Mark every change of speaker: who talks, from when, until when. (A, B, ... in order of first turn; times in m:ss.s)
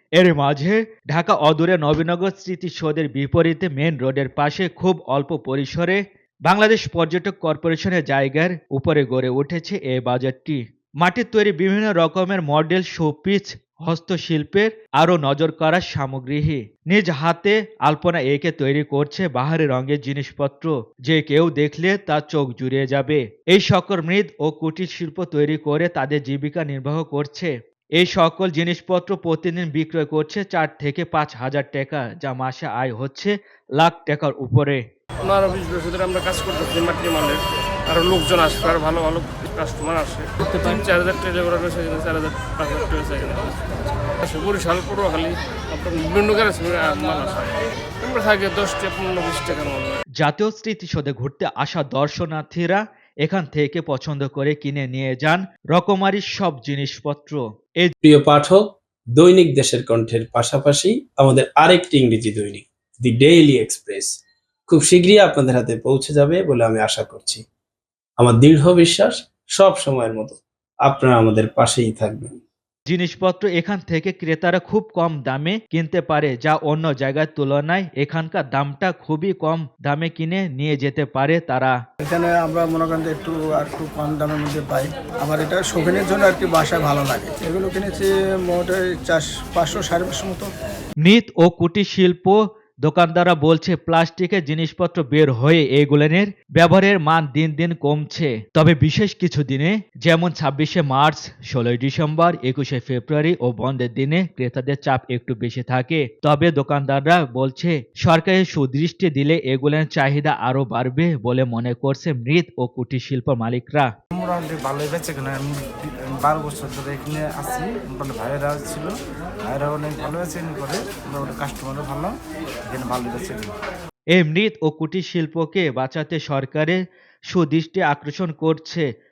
0:00.2-0:34.8 A
0:35.2-0:43.7 B
0:44.2-0:50.0 B
0:50.2-0:57.9 A
0:58.0-0:58.6 C
0:59.2-1:07.4 C
1:08.2-1:12.4 C
1:12.9-1:21.8 A
1:22.0-1:30.5 D
1:31.0-1:53.9 A
1:54.1-2:02.2 E
2:02.7-2:03.5 E
2:04.2-2:08.8 A